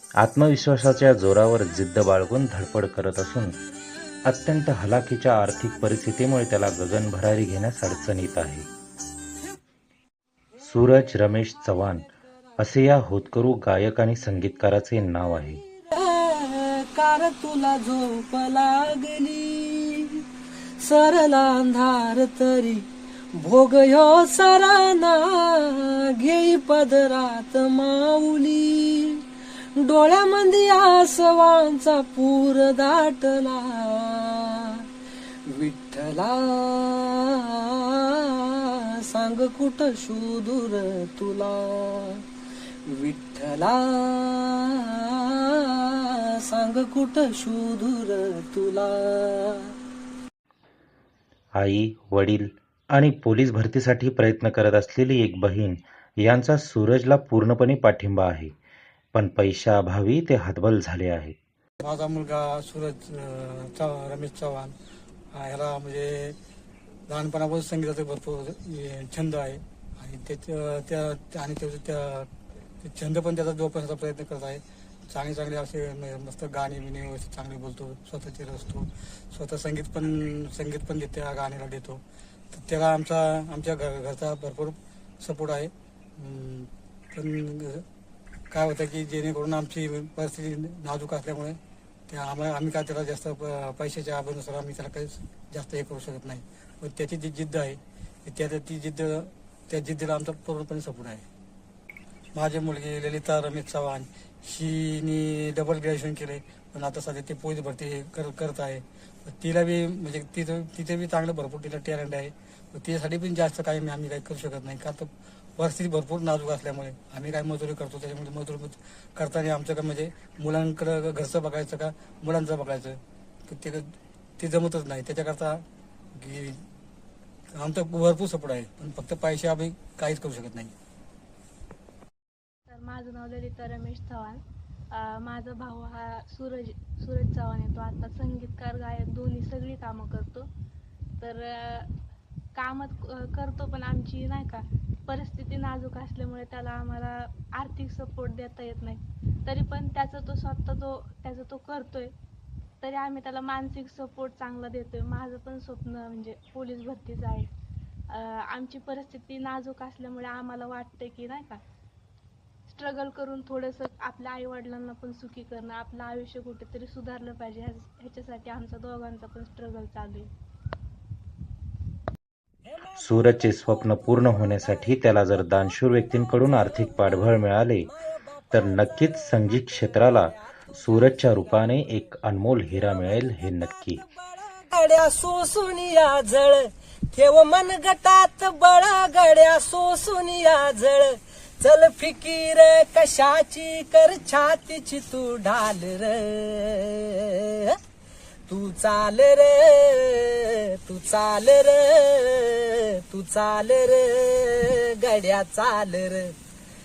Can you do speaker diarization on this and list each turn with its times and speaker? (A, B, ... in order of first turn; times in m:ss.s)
0:00.2-0:03.5 A
0:04.2-0:08.7 A
0:10.6-0:15.6 A
0:15.9-0:20.2 B
0:20.8-0:29.2 B
0:29.8-0:34.9 B
0:35.5-0:42.2 B
0:42.9-0:49.7 B
0:51.6-0:58.5 A
0:59.1-1:01.3 A
1:01.8-1:04.7 C
1:05.3-1:06.4 C
1:07.1-1:12.3 C
1:12.8-1:27.8 C
1:28.5-1:41.2 C
1:42.3-2:06.6 C
2:07.5-2:10.7 C
2:12.7-2:20.5 D
2:21.2-2:21.9 D
2:22.5-2:32.1 D
2:32.8-2:37.5 D
2:38.1-2:41.6 D
2:42.7-2:50.3 D
2:52.9-2:57.9 A
2:58.3-3:00.8 B
2:58.5-3:04.0 A
3:04.0-3:17.8 B
3:18.5-3:26.3 B